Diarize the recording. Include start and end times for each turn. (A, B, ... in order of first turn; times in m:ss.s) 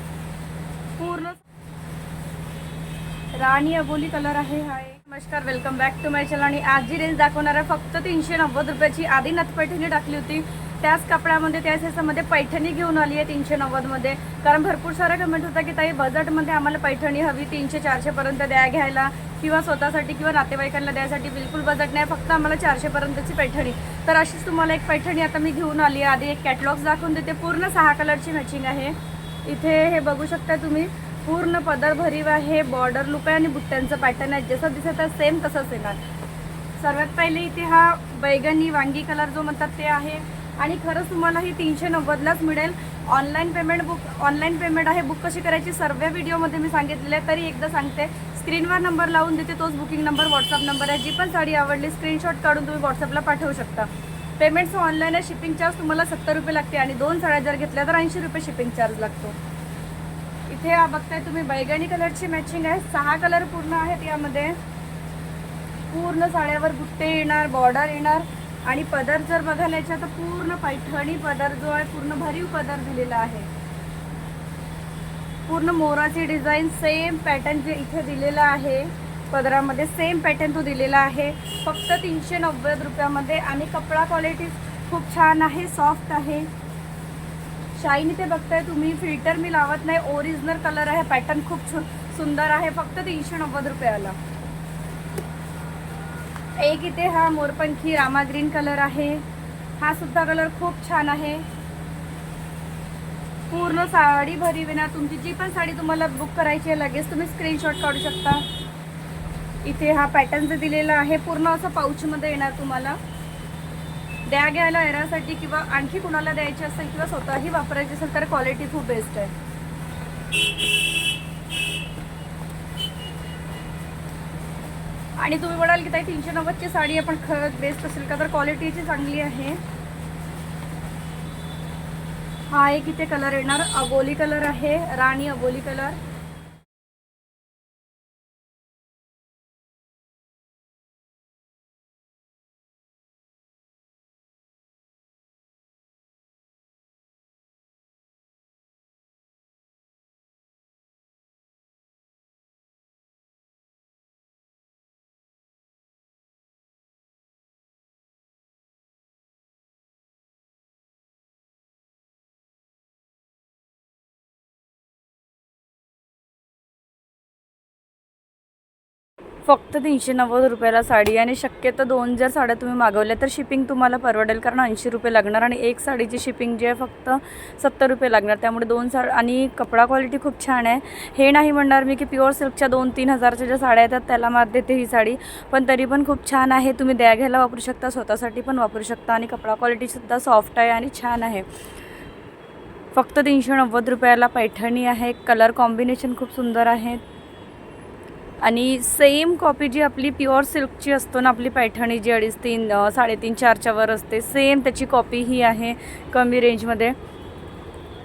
0:01.0-0:01.4 A
0:03.3-0:36.0 A
0:36.8-0:59.4 A
1:00.5-1:04.6 A
1:05.9-1:13.5 A
1:15.5-1:26.5 A
1:27.8-1:34.2 A
1:36.6-1:39.2 A
1:39.8-1:41.4 A
1:43.5-1:48.4 A
1:49.6-1:53.0 A
1:54.3-1:59.3 A
2:05.2-2:09.6 A
2:12.5-2:16.0 A
2:49.5-3:11.5 A
3:12.9-3:17.0 A
3:18.4-3:27.0 A